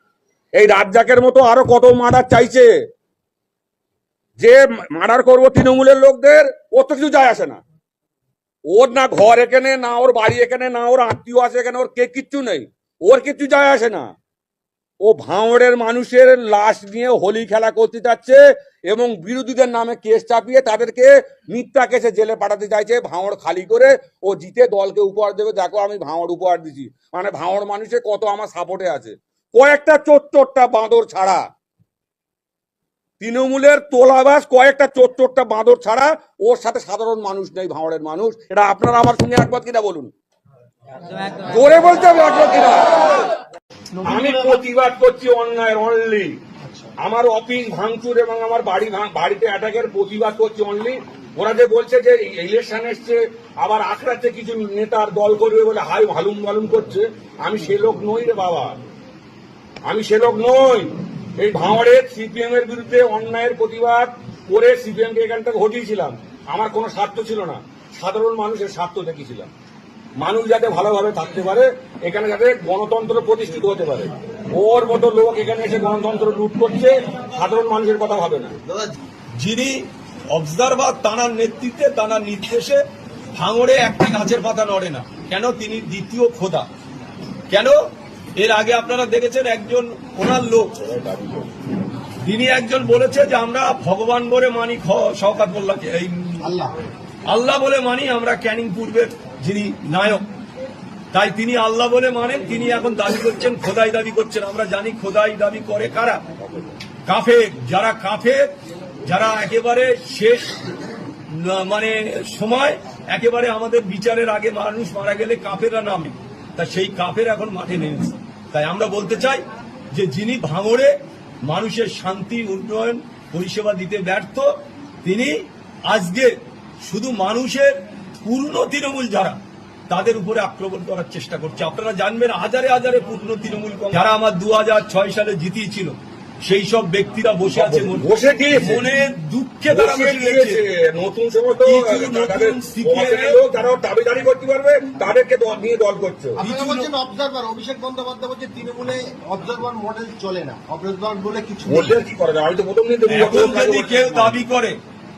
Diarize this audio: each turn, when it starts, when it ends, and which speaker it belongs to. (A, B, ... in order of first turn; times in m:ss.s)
0:00.6-0:02.7 A
0:04.4-0:07.6 A
0:08.7-0:14.0 A
0:15.0-0:31.4 A
0:33.2-0:40.1 A
0:41.4-0:43.2 A
0:43.9-0:44.6 B
0:44.0-0:46.3 A
0:46.6-0:46.9 B
0:47.0-0:58.8 A
0:59.9-1:09.5 A
1:10.2-1:18.5 A
1:19.4-1:22.8 C
1:23.4-1:26.7 C
1:27.5-1:27.8 C
1:28.4-1:30.7 C
1:30.8-1:31.4 A
1:32.2-1:36.5 C
1:36.4-1:36.7 B
1:37.3-1:40.2 C
1:41.1-1:46.2 C
1:47.1-1:48.5 C
1:49.0-1:50.6 C
1:51.3-2:00.9 C
2:01.4-2:04.5 C
2:05.0-2:09.4 C
2:09.9-2:20.6 C
2:17.5-2:18.8 A
2:19.6-2:26.4 A
2:21.6-2:23.4 C
2:26.4-2:32.0 B
2:26.4-2:26.8 C
2:31.7-2:34.4 A
2:33.1-2:34.8 C